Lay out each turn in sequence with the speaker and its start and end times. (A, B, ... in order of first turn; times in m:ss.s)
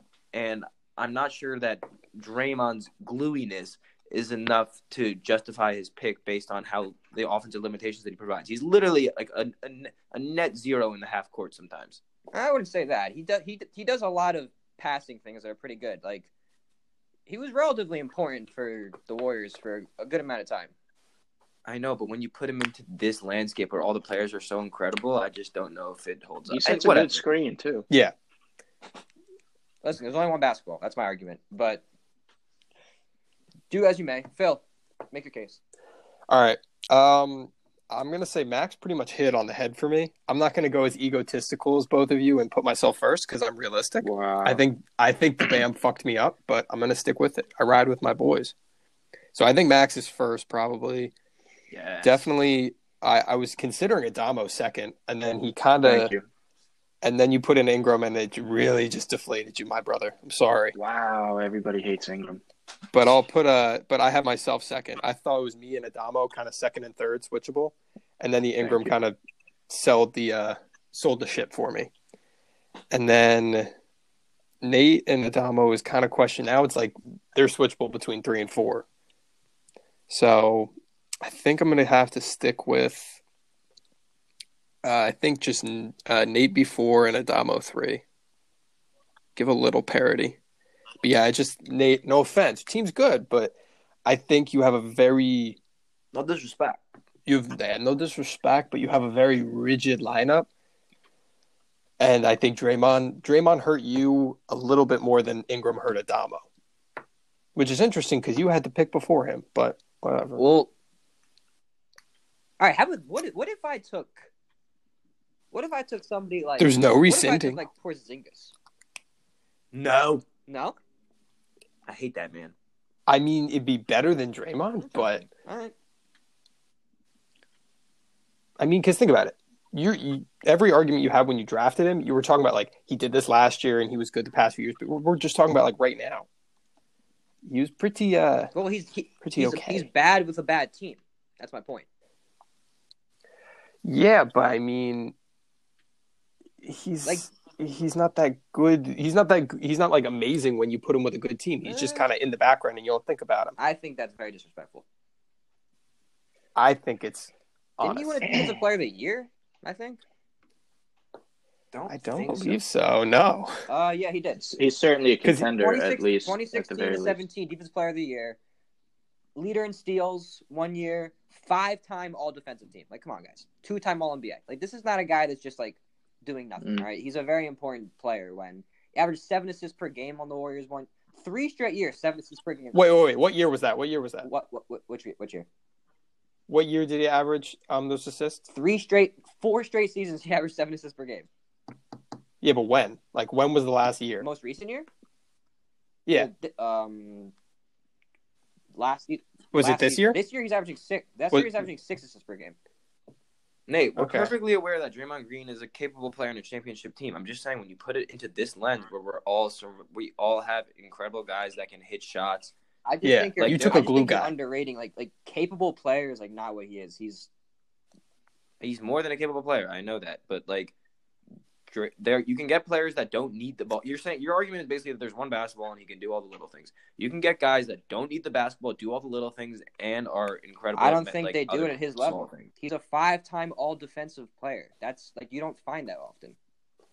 0:00.3-0:12.0 A
0:12.3-0:16.3 B
0:17.3-0:20.7 B
0:21.6-0:27.2 A
0:26.5-0:27.9 C
0:29.8-0:31.8 B
0:33.7-0:35.6 B
0:36.3-0:48.5 D
0:44.0-0:44.6 C
0:49.3-0:51.1 D
0:51.7-0:52.3 A
0:52.0-0:56.1 D
0:55.8-0:56.3 C
0:57.0-1:00.7 D
1:00.7-1:02.4 C
1:02.9-1:09.2 D
1:08.6-1:09.0 C
1:09.7-1:11.9 D
1:12.9-1:13.7 D
1:14.6-1:18.8 D
1:20.1-1:23.2 D
1:24.8-1:28.0 D
1:29.4-1:30.4 D
1:31.0-1:35.6 D
1:36.1-1:36.8 A
1:37.2-1:40.5 D
1:42.0-1:46.4 D
1:47.5-1:50.4 D
1:50.4-1:50.6 A
1:52.6-1:54.3 B
1:55.5-1:58.5 B
1:56.6-1:57.6 D
1:59.7-2:00.2 A
2:00.5-2:00.8 B
2:01.9-2:02.5 A
2:03.1-2:05.3 D
2:04.8-2:05.7 B
2:08.6-2:16.2 D
2:17.4-2:18.5 D
2:18.5-2:21.8 B
2:19.2-2:19.9 D
2:23.8-2:25.1 D
2:26.6-2:33.5 D
2:31.6-2:32.1 B
2:33.6-2:34.8 B
2:36.6-2:38.3 D
2:37.8-2:40.0 B
2:38.2-2:38.6 C
2:41.7-2:42.6 B
2:41.9-2:43.6 D
2:43.7-2:44.4 B
2:44.4-2:47.2 C
2:45.2-2:45.5 D
2:45.6-2:48.4 B
2:49.3-3:02.8 B
2:56.6-2:56.9 C
3:02.7-3:04.3 D
3:04.2-3:05.4 B
3:06.5-3:08.4 D
3:08.5-3:11.3 B
3:12.4-3:14.2 D
3:14.2-3:14.9 B
3:16.1-3:17.3 B
3:18.7-3:22.6 B
3:19.5-3:20.2 D
3:21.3-3:21.7 D
3:23.7-3:32.5 A
3:24.0-3:24.3 D
3:32.8-3:37.3 B
3:33.0-3:34.3 D
3:33.4-3:33.8 A
3:38.6-3:40.7 A
3:41.7-3:52.5 A
3:50.8-3:56.4 B